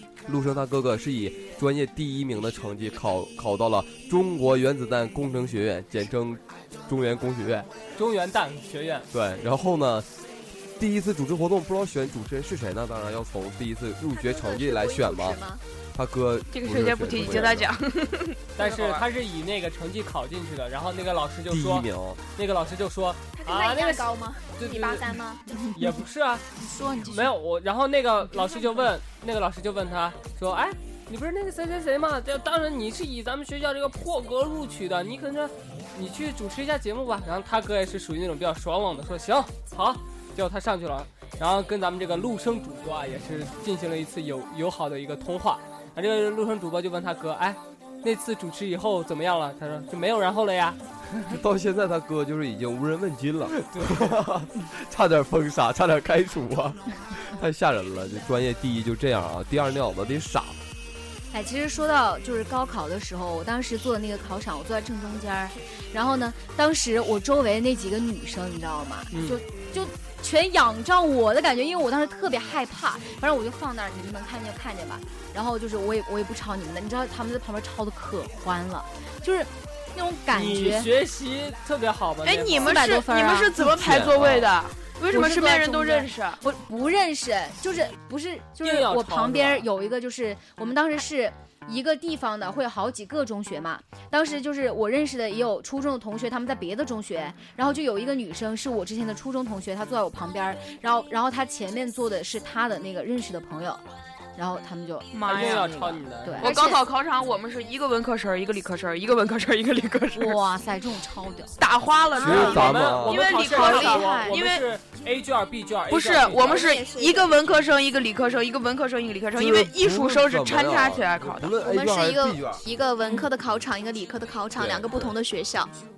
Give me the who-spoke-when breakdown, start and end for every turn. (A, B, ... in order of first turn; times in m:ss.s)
0:00.3-0:07.7 A
0:08.0-0:09.1 B
0:09.1-0:10.1 A
0:10.8-0:15.4 A
0:14.1-0:15.6 C
0:15.9-0:17.7 A
0:16.5-0:19.0 D
0:18.6-0:25.1 B
0:21.5-0:22.2 A
0:23.4-0:25.6 C
0:25.7-0:26.5 B
0:26.7-0:27.3 D
0:27.0-0:51.4 B
0:51.3-1:00.6 A
0:53.6-0:54.0 B
1:01.3-1:20.9 E
1:09.1-1:09.4 B
1:20.3-1:22.8 B
1:22.2-1:26.4 D
1:22.6-1:23.6 E
1:23.8-1:24.5 A
1:25.1-1:43.8 E
1:28.6-1:29.7 B
1:44.4-1:46.6 E
1:45.1-1:50.4 D
1:45.3-1:46.4 B
1:46.4-1:46.8 C
1:50.1-1:51.5 E
1:51.6-1:54.7 D
1:52.1-1:53.3 A
1:52.2-1:56.7 B
1:53.4-1:54.4 C
1:55.9-2:01.6 D
1:56.4-1:57.4 C
1:59.4-2:02.6 A
2:01.6-2:05.7 C
2:04.6-2:05.1 A